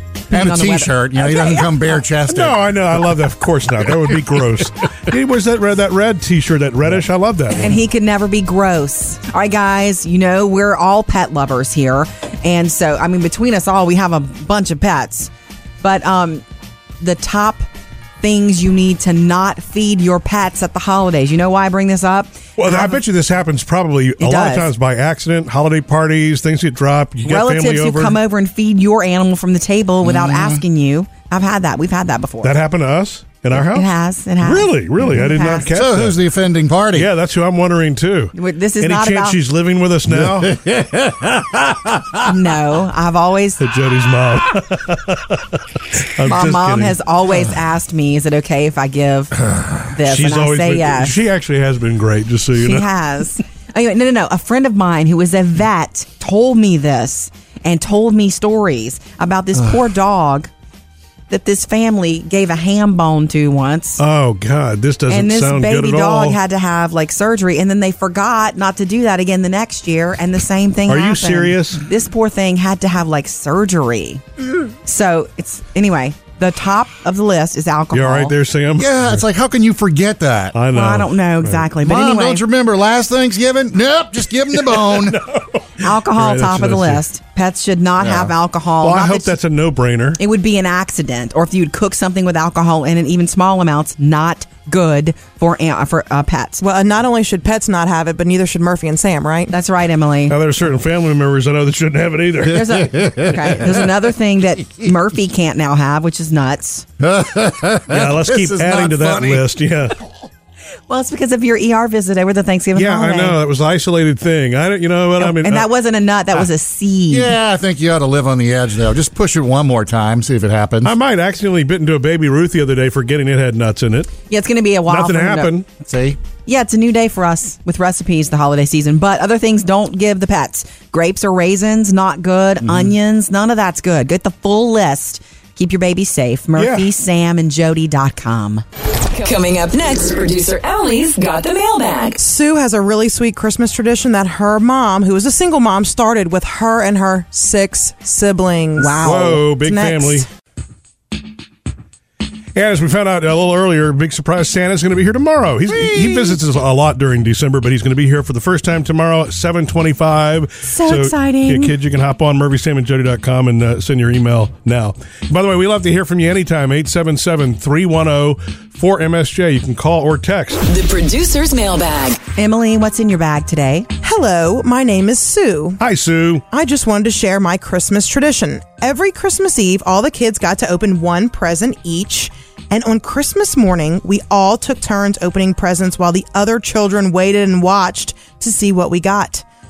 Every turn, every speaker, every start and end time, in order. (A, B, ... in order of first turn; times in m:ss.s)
0:00.3-0:01.9 A
0:00.3-0:02.7 B
0:02.3-0:07.8 C
0:07.6-0:15.3 A
0:15.8-0:16.4 A
0:17.0-0:17.7 A
0:18.2-0:23.0 A
0:22.6-0:28.2 C
0:24.2-0:24.7 A
0:27.2-0:32.5 A
0:30.0-0:30.6 B
0:32.4-0:33.9 C
0:33.5-0:35.7 A
0:34.4-0:36.2 C
0:35.7-0:37.1 B
0:36.9-0:40.6 C
0:38.3-0:39.4 A
0:40.1-0:42.3 B
0:42.2-0:43.6 A
0:43.6-0:47.0 C
0:46.2-0:51.1 A
0:50.0-0:52.8 C
0:52.6-1:00.5 A
1:01.3-1:04.0 A
1:04.0-1:06.4 C
1:05.1-1:14.2 A
1:10.9-1:11.8 C
1:14.8-1:18.3 A
1:17.9-1:19.2 C
1:18.8-1:20.6 B
1:20.5-1:21.6 C
1:20.7-1:22.4 A
1:21.8-1:25.2 B
1:24.6-1:27.0 C
1:25.8-1:29.3 A
1:28.0-1:28.3 B
1:28.8-1:30.2 C
1:30.2-1:36.6 A
1:36.6-1:39.5 D
1:39.5-1:40.4 A
1:40.3-1:42.8 C
1:42.5-1:46.8 A
1:42.7-1:43.7 B
1:47.0-1:49.5 B
1:47.9-1:50.0 C
1:50.9-1:53.4 A
1:52.7-1:55.7 C
1:55.2-1:57.3 A
1:57.1-2:00.9 B
2:00.8-2:04.1 C
2:04.3-2:05.5 A
2:04.9-2:05.6 C
2:05.8-2:06.2 B
2:06.4-2:18.6 A
2:12.6-2:12.9 B
2:16.6-2:16.9 C
2:19.1-2:22.2 E
2:22.2-2:30.2 D
2:28.8-2:30.2 C
2:32.5-2:50.6 C
2:40.6-2:41.7 A
2:50.6-2:52.2 E
2:52.4-2:53.9 A
2:54.0-2:55.8 D
2:55.8-2:56.4 C
2:56.5-3:09.4 D